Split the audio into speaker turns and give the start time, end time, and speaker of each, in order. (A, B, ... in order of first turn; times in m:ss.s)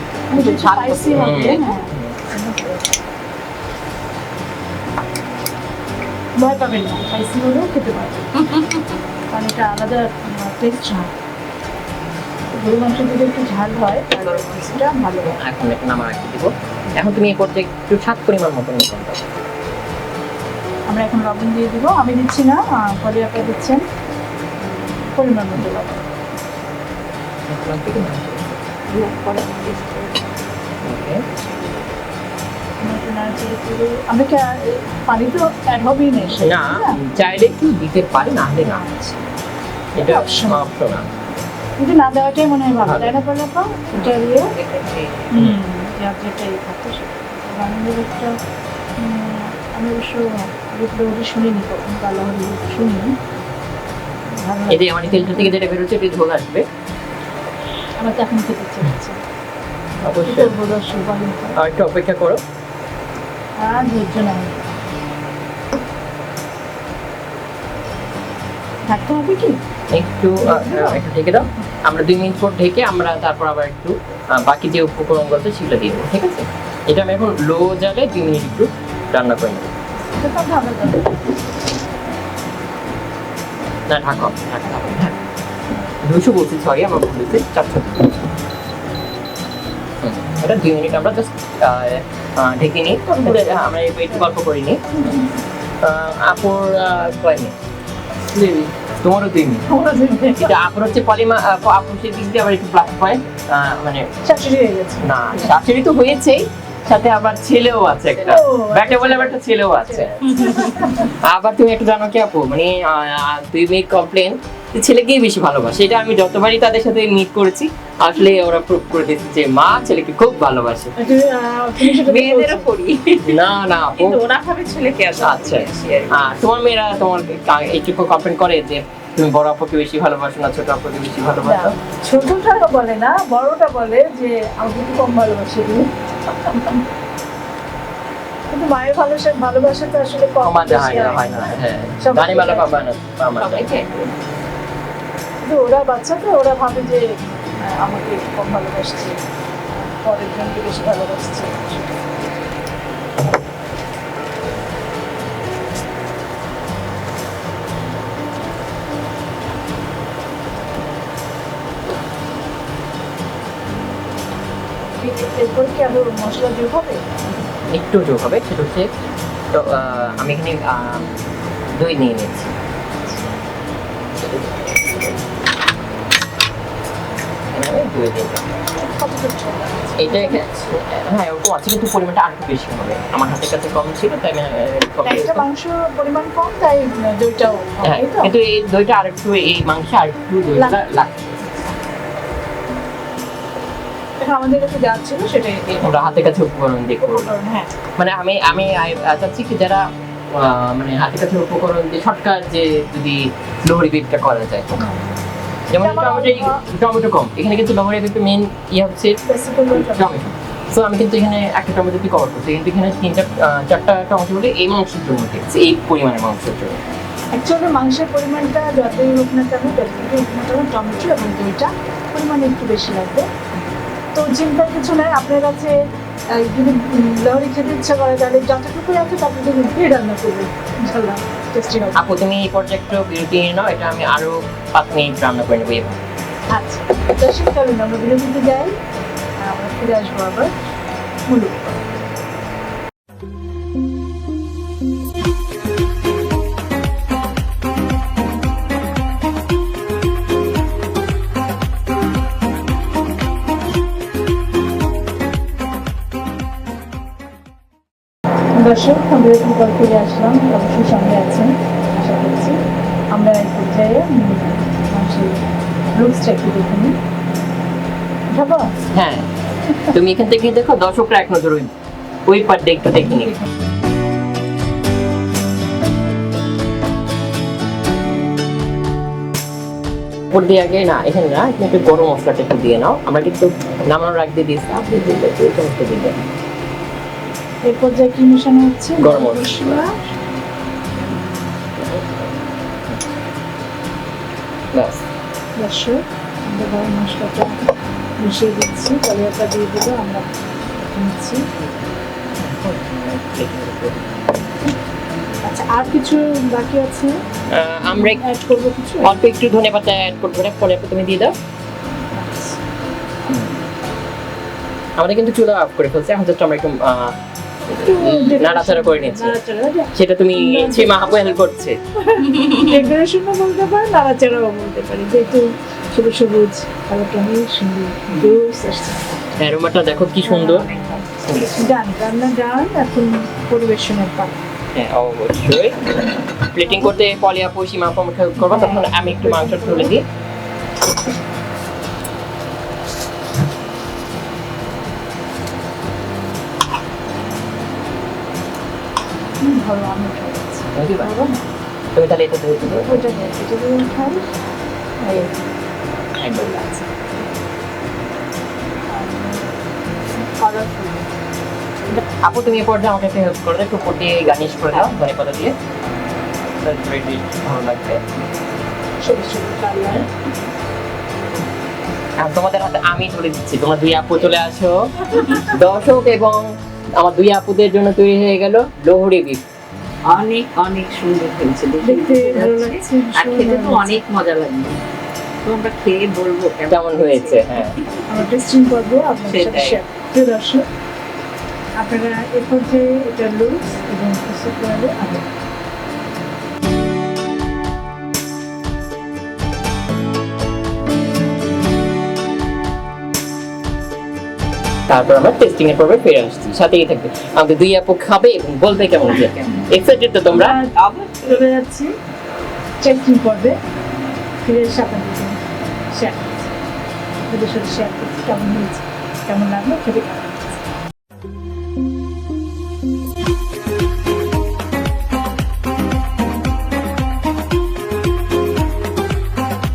0:00.3-0:02.9 A
0:00.4-0:01.7 B
0:01.0-0:02.2 C
0:06.4-0:08.3 A
0:08.4-0:08.8 B
0:09.3-0:11.1 A
0:12.5-0:15.4 A
0:14.1-0:19.2 C
0:20.9-0:23.8 A
0:25.1-0:26.1 A
0:27.5-0:28.6 C
0:28.9-0:30.3 B
0:30.8-0:31.2 C
0:32.8-0:37.0 A
0:36.4-0:38.8 C
0:38.6-0:39.2 A
0:40.0-0:40.6 A
0:40.0-0:41.1 C
0:41.8-0:44.5 A
0:42.8-0:43.1 C
0:44.0-0:45.3 B
0:45.3-0:48.3 A
0:49.0-0:53.1 A
0:54.4-0:55.8 A
0:54.7-0:56.6 C
0:58.0-0:59.2 A
1:00.0-1:00.5 C
1:00.2-1:01.6 A
1:01.6-1:02.4 C
1:03.6-1:04.6 A
1:08.9-1:09.6 A
1:09.9-1:19.7 C
1:10.4-1:11.0 A
1:20.2-1:21.4 A
1:23.9-1:25.2 C
1:26.0-1:28.2 C
1:30.0-1:35.2 C
1:33.0-1:34.3 A
1:35.8-1:37.6 C
1:38.4-1:39.6 C
1:39.6-1:40.6 A
1:40.4-1:44.1 C
1:44.2-1:45.1 A
1:45.0-2:00.9 C
1:48.2-1:51.1 A
2:01.0-2:02.6 A
2:01.8-2:06.3 B
2:03.2-2:04.2 C
2:05.2-2:11.7 C
2:11.4-2:15.8 A
2:16.5-2:16.8 A
2:18.5-2:22.8 A
2:20.4-2:23.8 C
2:23.4-2:24.1 B
2:25.4-2:27.1 A
2:27.6-2:29.2 A
2:29.7-2:31.9 A
2:45.0-2:47.0 A
2:47.7-2:48.9 C
2:49.5-2:51.1 C
2:51.7-2:52.6 C
2:54.1-2:55.3 C
2:57.5-2:58.5 C
2:58.8-3:00.8 A
3:00.0-3:05.5 C
3:05.0-3:08.3 A
3:07.8-3:11.5 C
3:10.5-3:10.8 A
3:14.2-3:15.9 A
3:15.8-3:17.3 C
3:17.0-3:17.7 A
3:18.0-3:24.8 C
3:24.8-3:25.1 A
3:25.7-3:29.2 C
3:25.8-3:26.6 A
3:29.2-3:30.2 A
3:29.7-3:36.8 C
3:37.3-3:43.3 A
3:44.1-3:52.0 A
3:51.9-3:56.0 C
3:56.5-3:58.7 A
3:59.4-4:00.5 A
4:01.3-4:01.8 A
4:18.6-4:22.6 A
4:23.1-4:27.0 A
4:28.3-4:28.7 A
4:28.9-4:29.3 C
4:29.9-4:31.7 C
4:32.2-4:33.4 C
4:40.3-4:46.2 C
4:47.6-4:49.9 A
4:49.0-4:50.1 C
4:51.7-4:52.3 C
4:54.7-4:55.0 C
4:55.6-4:57.6 A
4:58.2-5:00.3 A
5:00.8-5:01.4 A
5:01.5-5:01.8 C
5:02.4-5:04.4 C
5:05.4-5:07.2 A
5:07.5-5:08.2 C
5:07.8-5:09.1 A
5:09.0-5:11.3 C
5:12.1-5:12.6 A
5:15.0-5:17.2 C
5:17.7-5:19.4 C
5:17.7-5:21.4 A
5:19.9-5:21.8 C
5:22.1-5:29.1 A
5:22.4-5:22.7 B
5:29.4-5:31.7 C
5:30.2-5:34.3 A
5:34.7-5:40.0 C
5:38.4-5:39.9 A
5:49.4-5:51.4 A
5:50.7-5:51.1 C
5:51.9-5:53.0 C
5:52.8-5:54.2 A
5:55.0-5:55.3 A
5:56.2-5:56.9 C
5:58.9-5:59.4 A
6:00.2-6:01.1 A
6:02.2-6:05.5 C
6:06.6-6:08.0 C
6:09.0-6:10.1 A
6:12.2-6:19.4 C
6:20.1-6:24.8 B
6:21.8-6:24.0 A
6:25.4-6:28.0 B
6:26.7-6:27.7 C
6:28.1-6:30.6 A
6:29.2-6:29.8 B
6:31.8-6:35.2 A
6:44.9-6:50.6 C
6:49.1-6:49.6 B
6:50.3-6:51.9 A
6:50.4-6:51.4 B
6:52.8-6:53.6 A
6:54.4-6:55.4 A
6:55.9-6:56.5 A
6:57.3-7:00.4 A